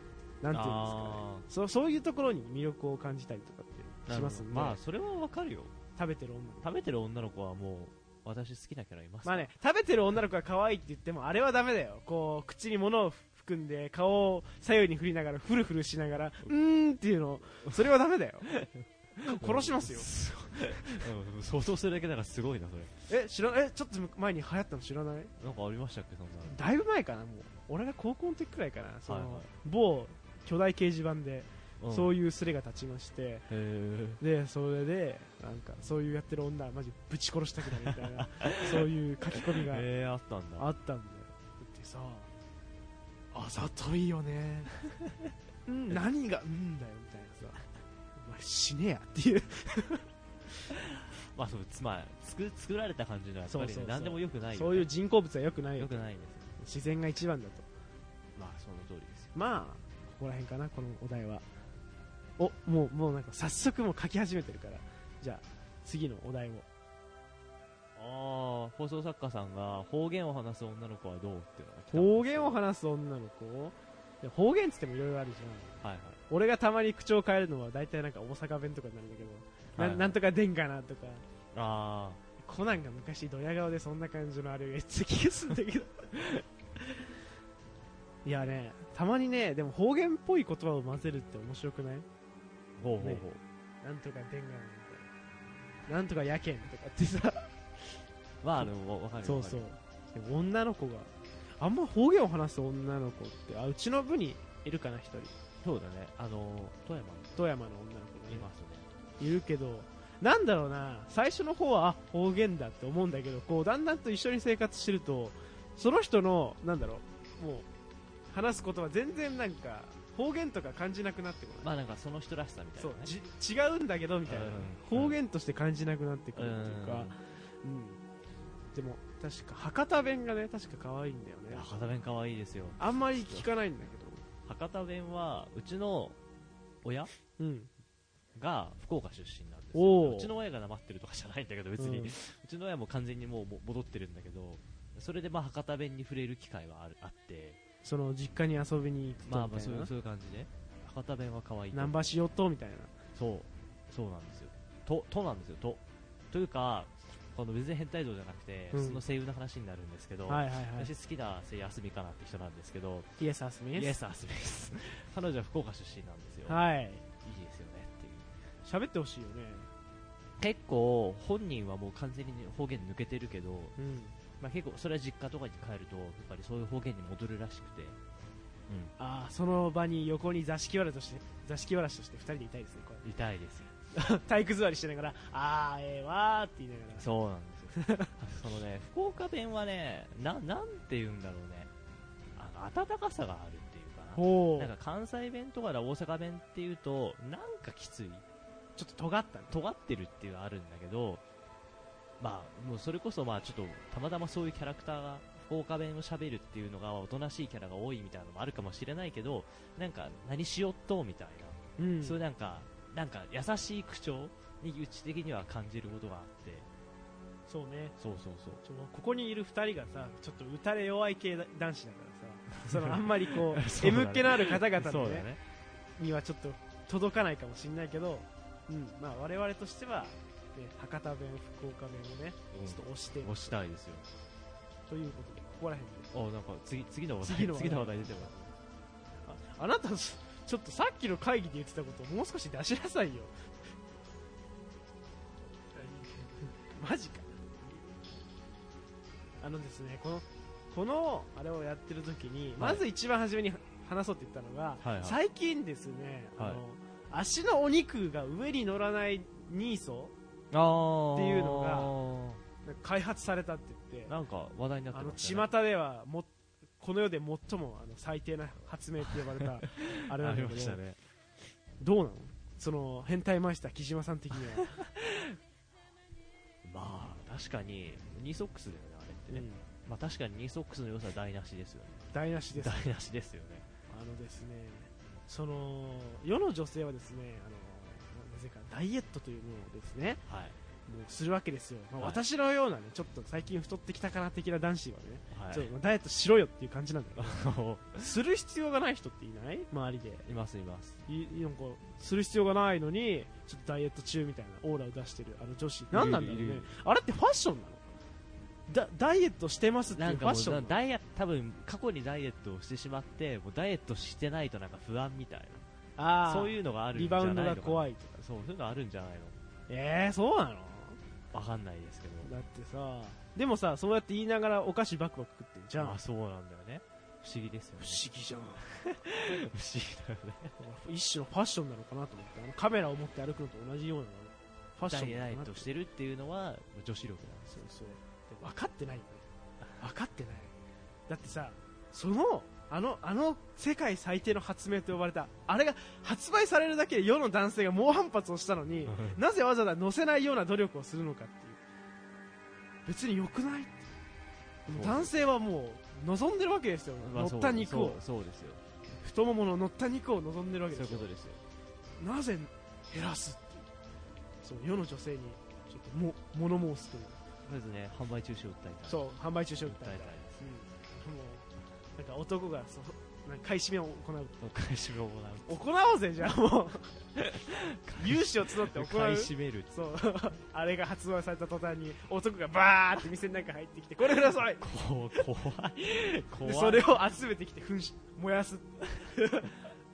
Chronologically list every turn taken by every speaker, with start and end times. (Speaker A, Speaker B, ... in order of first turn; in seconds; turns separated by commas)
Speaker A: 0.4-4.8, Speaker B: 0.5-1.4, Speaker B: 4.1-5.7, Speaker A: 6.0-6.7, Speaker B: 6.6-9.5, Speaker A: 9.2-18.5, Speaker B: 18.6-22.9, Speaker A: 19.2-20.1, Speaker A: 23.1-25.3, Speaker B: 25.4-26.6, Speaker A: 26.4-33.5, Speaker B: 29.1-29.5, Speaker B: 31.8-32.1, Speaker B: 33.5-34.2, Speaker A: 34.2-39.9, Speaker B: 37.9-38.9, Speaker B: 39.6-40.7, Speaker A: 40.6-42.3, Speaker A: 43.3-44.7, Speaker A: 45.7-47.6, Speaker A: 48.2-50.1, Speaker B: 51.1-54.9, Speaker A: 53.5-56.0, Speaker B: 55.8-56.5, Speaker A: 56.6-57.7, Speaker B: 58.4-59.3, Speaker A: 59.3-61.5, Speaker A: 62.4-66.7, Speaker B: 68.0-72.6, Speaker A: 71.9-75.8, Speaker B: 75.8-76.2, Speaker A: 76.3-81.2, Speaker B: 79.8-80.2, Speaker B: 81.5-82.2, Speaker A: 82.4-86.4, Speaker A: 88.2-92.1, Speaker B: 92.8-93.4, Speaker A: 93.0-93.2, Speaker A: 93.8-95.1, Speaker A: 95.9-98.0, Speaker B: 98.4-99.7, Speaker A: 98.6-105.4, Speaker B: 105.6-107.5, Speaker A: 107.4-108.5, Speaker B: 108.3-108.9, Speaker A: 109.2-117.7, Speaker A: 118.3-121.7, Speaker B: 121.6-123.1, Speaker A: 122.8-128.0, Speaker B: 124.3-125.2, Speaker B: 126.3-127.2, Speaker A: 128.7-131.7, Speaker B: 131.5-133.5, Speaker A: 132.8-134.2, Speaker B: 134.5-136.2, Speaker B: 136.8-137.1, Speaker A: 137.4-137.7, Speaker B: 138.4-147.6, Speaker A: 139.7-140.3, Speaker A: 141.8-142.2, Speaker A: 147.8-149.9, Speaker B: 149.2-152.1, Speaker A: 151.7-152.9, Speaker B: 153.2-163.1, Speaker A: 158.7-159.0, Speaker A: 160.3-160.9, Speaker A: 163.2-164.0, Speaker B: 163.8-166.6, Speaker A: 166.5-167.1, Speaker B: 167.2-168.3, Speaker A: 168.6-169.7, Speaker B: 170.4-173.8, Speaker A: 173.8-174.2, Speaker B: 174.4-178.0, Speaker B: 178.7-178.9, Speaker A: 179.0-183.1, Speaker B: 183.0-183.7, Speaker A: 183.9-187.1, Speaker B: 187.0-191.7, Speaker A: 187.7-188.1, Speaker B: 192.4-198.2, Speaker A: 194.2-194.7, Speaker A: 198.8-199.6, Speaker B: 199.5-201.2, Speaker B: 202.2-216.7, Speaker A: 211.8-212.2, Speaker A: 217.5-218.0, Speaker B: 218.0-218.6, Speaker A: 218.6-225.3, Speaker B: 222.7-225.4, Speaker A: 226.0-233.6, Speaker B: 232.5-234.1, Speaker A: 234.9-236.1, Speaker B: 236.1-238.5, Speaker A: 237.2-238.3, Speaker A: 239.2-243.3, Speaker A: 246.6-247.7, Speaker A: 249.4-260.1, Speaker B: 252.6-252.8, Speaker B: 254.8-255.2, Speaker B: 260.5-262.4, Speaker A: 261.1-261.9, Speaker A: 262.6-264.1, Speaker B: 264.1-265.5, Speaker A: 264.9-270.8, Speaker B: 269.7-271.0, Speaker A: 271.8-274.8, Speaker B: 274.8-275.4, Speaker B: 276.6-283.7, Speaker A: 279.3-279.6, Speaker A: 282.1-282.9, Speaker A: 283.9-290.2, Speaker B: 290.3-290.6, Speaker A: 290.9-297.4, Speaker B: 295.3-295.7, Speaker B: 297.2-298.1, Speaker A: 298.0-300.3, Speaker B: 300.2-301.0, Speaker A: 301.1-307.9, Speaker B: 305.9-306.7, Speaker A: 308.7-310.8, Speaker B: 309.9-315.6, Speaker A: 316.0-318.2, Speaker B: 316.2-319.4, Speaker A: 319.7-321.0, Speaker B: 321.3-322.3, Speaker A: 322.2-326.0, Speaker B: 325.8-328.0, Speaker A: 327.8-328.6, Speaker B: 328.7-330.6, Speaker A: 330.6-335.7, Speaker B: 334.9-337.7, Speaker A: 337.5-339.2, Speaker A: 339.8-340.5, Speaker A: 341.1-351.6, Speaker B: 348.9-349.2, Speaker A: 352.9-353.9, Speaker A: 354.7-358.0, Speaker B: 354.7-355.2, Speaker B: 357.0-358.6, Speaker A: 359.0-361.1, Speaker B: 360.7-361.4, Speaker A: 362.0-363.7, Speaker A: 364.4-367.2, Speaker B: 367.5-370.4, Speaker A: 368.9-371.5, Speaker A: 372.0-374.4, Speaker B: 374.4-375.6, Speaker A: 375.5-377.0, Speaker B: 377.2-379.8, Speaker A: 377.9-385.2, Speaker B: 384.6-386.9, Speaker A: 386.4-389.6